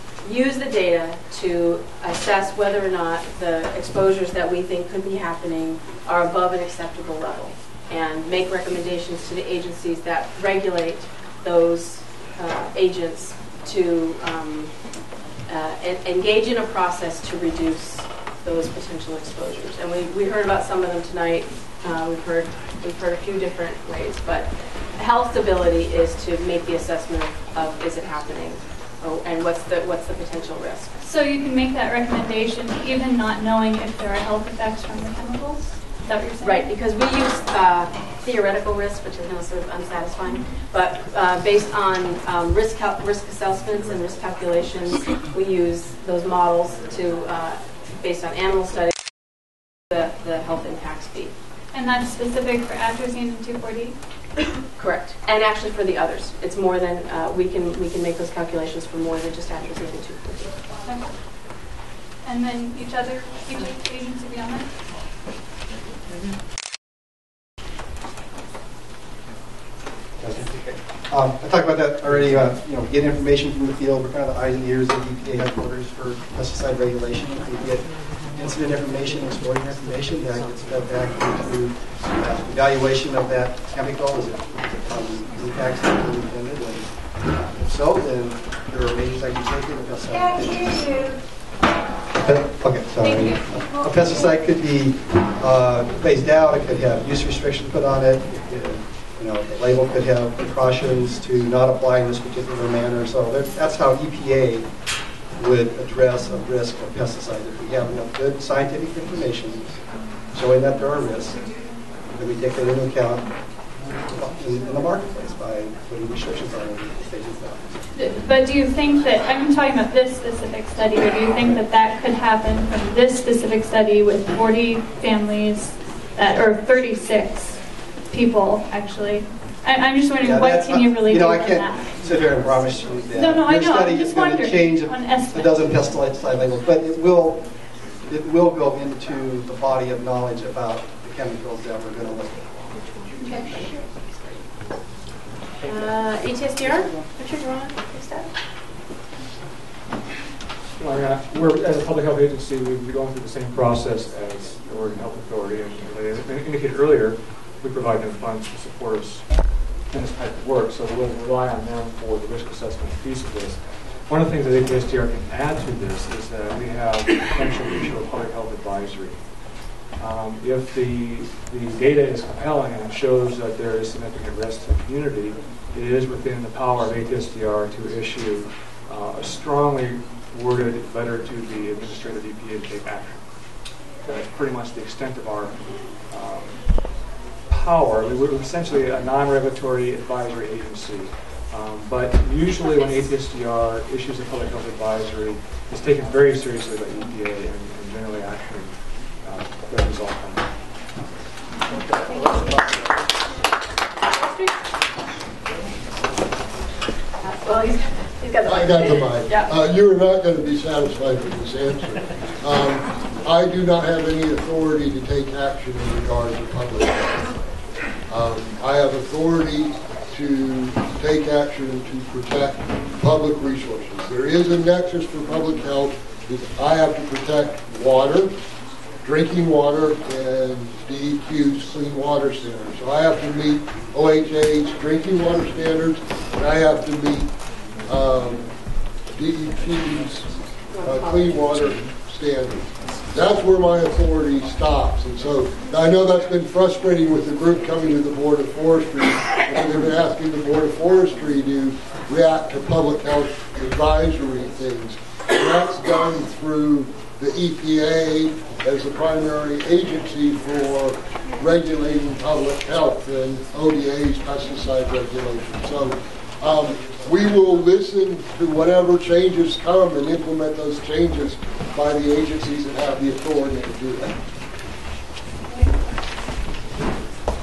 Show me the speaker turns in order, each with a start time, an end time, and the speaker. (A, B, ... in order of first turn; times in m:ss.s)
0:00.2-0:14.7 A
0:15.5-0:30.9 A
0:31.0-0:36.7 B
0:36.4-0:48.9 A
0:49.9-0:51.3 A
0:51.7-0:53.9 B
0:54.8-1:00.7 A
1:00.8-1:01.1 B
1:02.2-1:04.7 B
1:10.2-1:31.0 C
1:32.1-1:44.7 C
1:45.4-1:49.8 C
1:50.3-1:51.4 C
1:52.1-1:53.2 C
1:54.1-1:57.8 C
1:57.9-2:11.9 B
2:10.2-2:22.6 C
2:13.1-2:15.7 B
2:23.2-2:23.5 B
2:23.8-2:24.1 A
2:25.6-2:28.3 A
2:30.7-3:20.5 D
3:24.2-3:24.5 A
3:27.4-3:29.4 A
3:28.4-3:37.3 E
3:38.1-3:48.3 E
3:49.0-3:57.3 E
3:57.8-3:58.5 E
3:59.1-4:34.1 E
4:00.7-4:01.3 A